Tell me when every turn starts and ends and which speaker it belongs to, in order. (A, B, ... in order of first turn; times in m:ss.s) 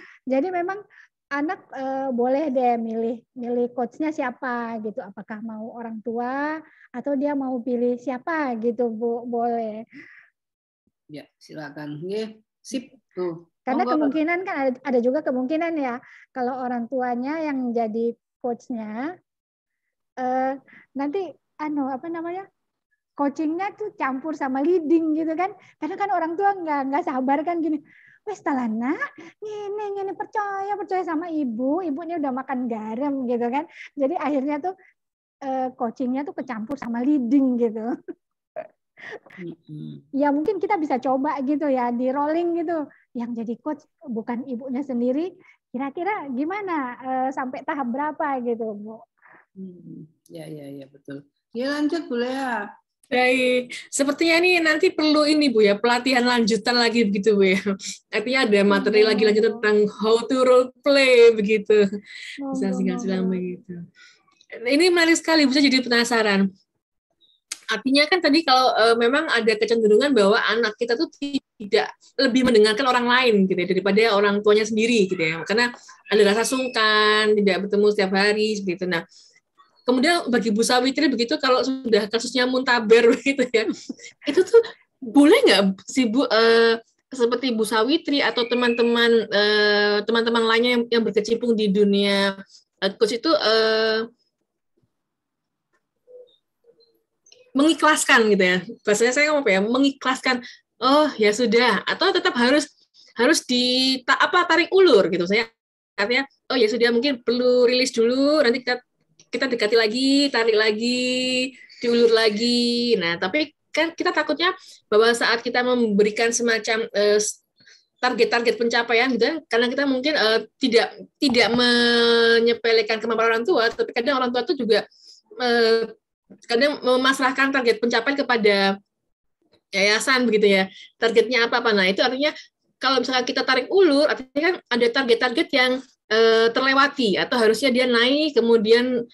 0:00.3-0:00.8 A
0:01.4-0:09.9 A
0:11.1-0:14.2 B
0:13.7-0:19.1 A
0:20.2-0:22.5 A
0:23.2-0:34.7 A
0:35.4-0:37.9 A
0:39.0-0:39.3 A
0:39.4-0:40.0 B
0:40.2-0:49.0 A
0:49.6-0:52.7 B
0:53.1-0:57.6 C
0:58.1-1:01.8 C
0:58.7-0:59.6 A
1:02.4-1:03.4 A
1:02.5-1:03.8 C
1:04.6-1:06.4 C
1:07.7-1:19.0 C
1:19.9-1:34.1 C
1:37.6-1:48.8 C
1:49.3-1:57.4 C
1:58.0-2:04.8 C
2:05.4-2:05.9 C
2:06.5-2:08.7 C
2:09.8-2:18.9 C